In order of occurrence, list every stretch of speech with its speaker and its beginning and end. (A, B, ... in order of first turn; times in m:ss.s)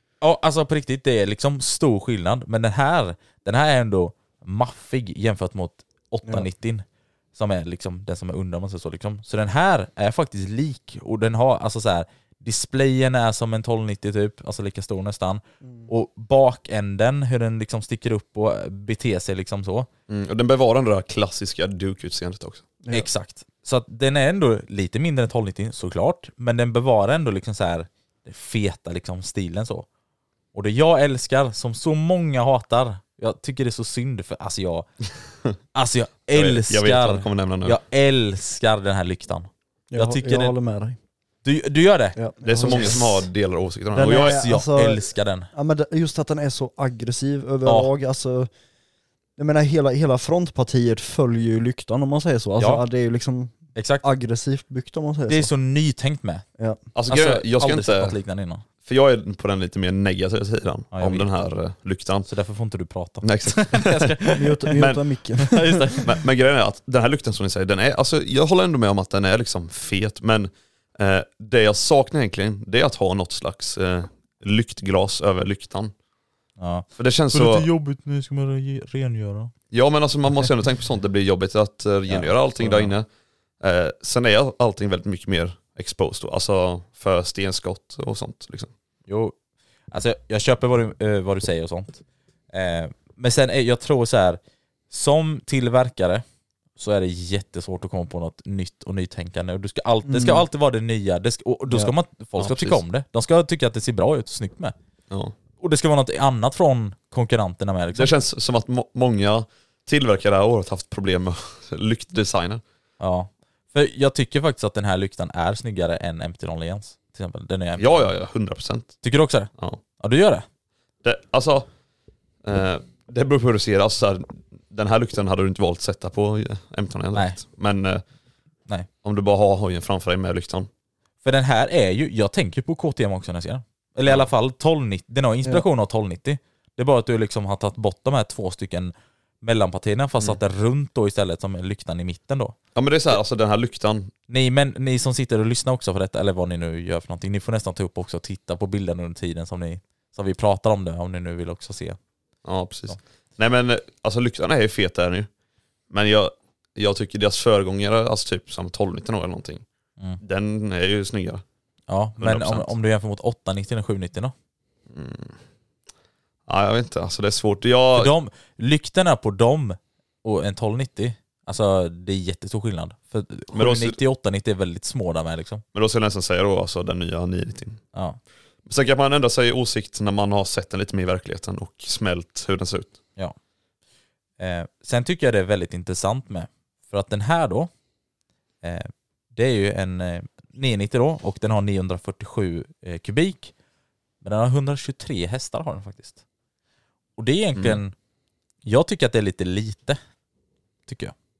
0:00.2-0:19.9 A
0:15.6-0:15.9 B
0:20.1-0:22.6 C
0:22.9-0:29.9 A
0:30.5-0:34.9 A
0:35.7-0:40.5 A
0:36.3-0:37.8 C
0:39.9-0:41.0 B
0:41.4-0:43.0 A
0:42.2-0:43.2 B
0:42.4-0:44.4 C
0:43.9-0:48.5 B
0:44.0-0:45.5 A
0:47.6-0:47.9 A
0:49.4-0:55.5 B
0:52.6-0:52.8 A
0:53.7-0:54.0 A
0:55.3-0:56.4 A
0:56.9-0:58.2 C
0:57.1-0:58.6 A
0:58.8-1:02.3 C
1:00.9-1:01.3 A
1:02.3-1:04.6 A
1:03.2-1:05.0 C
1:04.3-1:05.8 B
1:05.4-1:06.1 A
1:06.0-1:15.9 C
1:16.6-1:19.5 A
1:17.0-1:17.7 C
1:19.7-1:23.1 C
1:22.1-1:22.9 A
1:23.6-1:28.7 C
1:29.1-1:29.4 A
1:29.9-1:36.2 A
1:36.8-1:44.7 A
1:40.0-1:40.4 B
1:42.4-1:42.8 C
1:45.6-1:48.1 A
1:47.9-1:52.6 C
1:53.0-1:58.1 A
1:57.8-1:59.0 C
1:59.0-2:00.4 A
2:01.0-2:01.7 C
2:02.4-2:08.0 C
2:09.0-2:10.7 C
2:11.2-2:22.6 A
2:22.7-2:24.1 C
2:24.3-2:32.0 A
2:32.4-2:35.3 C
2:35.9-2:39.6 C
2:40.2-2:41.4 C
2:41.9-2:44.3 A
2:42.2-2:42.7 C
2:44.9-2:45.3 C
2:46.5-2:48.1 C
2:47.9-2:55.6 A
2:53.5-2:54.0 C
2:55.7-2:57.8 C
2:57.9-2:58.2 A
2:58.6-3:03.0 C
3:04.4-3:07.7 A
3:08.6-3:13.5 A
3:14.2-3:16.2 A
3:17.2-3:17.9 A
3:18.6-3:20.0 A
3:20.9-3:21.1 A